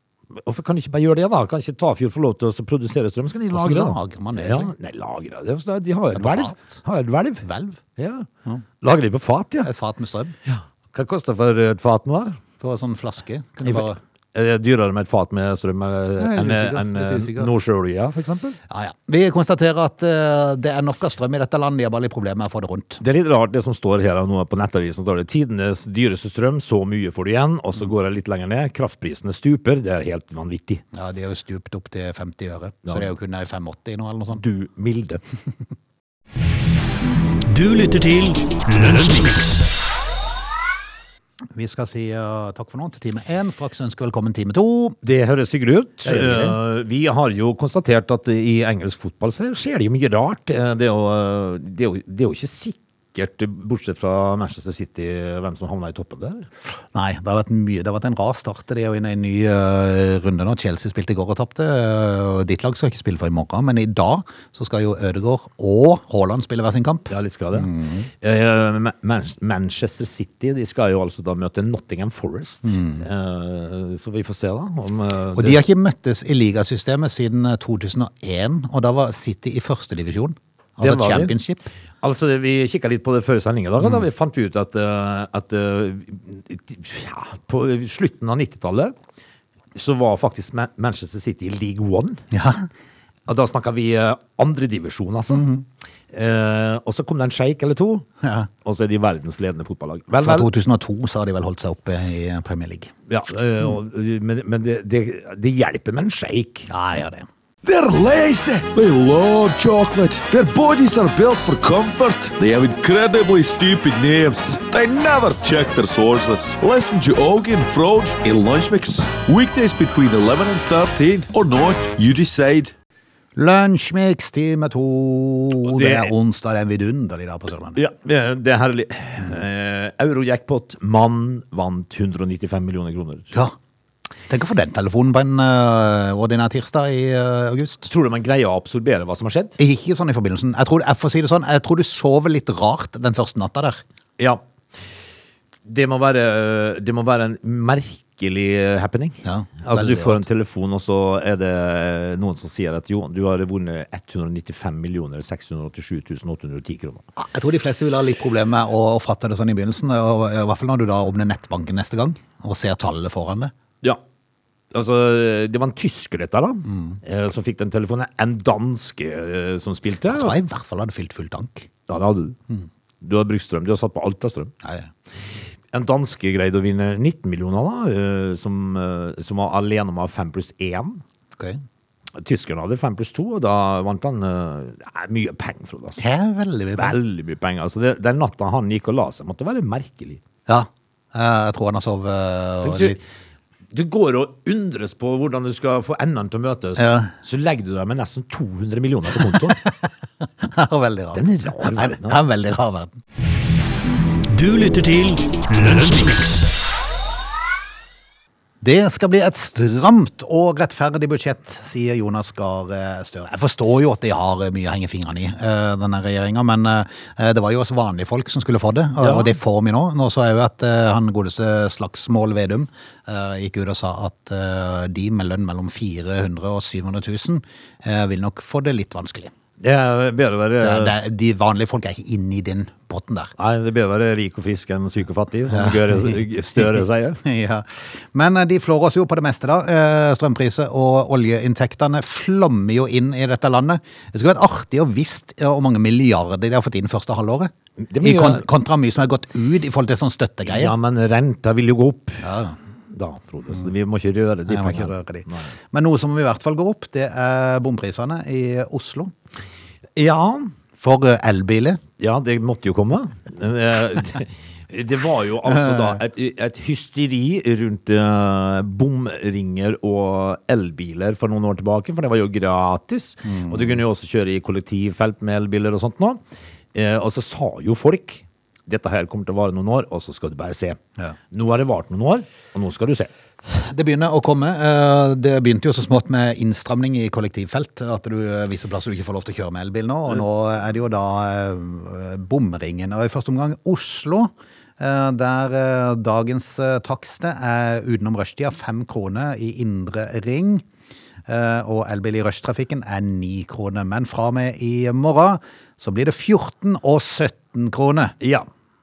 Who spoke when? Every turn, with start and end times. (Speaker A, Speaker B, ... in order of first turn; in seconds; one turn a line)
Speaker A: 0.3-7.5
Speaker B: 3.5-4.7
Speaker B: 6.1-6.8
Speaker B: 7.4-7.8
Speaker A: 8.0-8.3
Speaker A: 8.8-9.7
Speaker B: 9.6-10.3
Speaker A: 10.4-12.4
Speaker B: 12.6-14.0
Speaker A: 13.6-18.6
Speaker B: 16.2-17.5
Speaker B: 18.7-23.0
Speaker A: 23.0-30.8
Speaker B: 30.9-34.4
Speaker A: 34.4-35.2
Speaker C: 37.5-39.7
Speaker B: 41.5-45.0
Speaker A: 45.0-56.5
Speaker B: 46.0-46.6
Speaker B: 56.9-68.1
Speaker A: 67.1-75.6
Speaker B: 72.7-73.0
Speaker B: 75.3-81.7
Speaker A: 80.8-81.3
Speaker A: 82.0-89.0
Speaker A: 89.8-92.2
Speaker B: 92.3-92.7
Speaker A: 93.3-95.5
Speaker B: 95.3-95.6
Speaker A: 96.1-98.1
Speaker B: 98.2-98.5
Speaker A: 98.6-100.5
Speaker B: 100.2-102.9
Speaker A: 103.1-106.7
Speaker B: 106.7-107.3
Speaker D: 107.6-122.7
Speaker B: 123.4-127.8
Speaker A: 125.7-126.1
Speaker A: 127.8-133.3
Speaker B: 134.3-137.9
Speaker A: 137.9-139.6
Speaker B: 139.6-143.8
Speaker A: 145.7-157.0
Speaker B: 149.2-150.2
Speaker B: 157.2-163.5
Speaker A: 164.7-170.4
Speaker B: 166.7-167.0
Speaker B: 170.1-171.7
Speaker A: 171.9-172.4
Speaker A: 173.0-174.5
Speaker B: 174.6-174.9
Speaker A: 175.7-181.0
Speaker B: 181.4-181.6
Speaker A: 182.2-186.0
Speaker B: 186.0-187.0
Speaker A: 186.8-190.2
Speaker B: 190.5-193.0
Speaker A: 192.6-193.0
Speaker A: 193.7-199.6
Speaker B: 196.8-197.1
Speaker B: 199.3-203.0
Speaker A: 201.1-202.2
Speaker C: 204.3-206.5
Speaker B: 208.6-229.3
Speaker A: 219.0-219.4
Speaker A: 229.6-231.0
Speaker B: 230.6-233.3
Speaker A: 233.4-237.2
Speaker B: 235.5-250.7
Speaker A: 247.8-248.5
Speaker A: 250.5-252.2
Speaker B: 252.2-252.6
Speaker A: 252.9-255.5
Speaker B: 254.5-259.1
Speaker A: 259.9-260.5
Speaker B: 260.8-261.8
Speaker A: 262.0-276.2
Speaker B: 265.5-266.0
Speaker B: 273.2-273.8
Speaker A: 276.7-280.8
Speaker A: 281.3-283.1
Speaker B: 283.5-300.6
Speaker B: 301.3-308.1
Speaker A: 308.2-308.5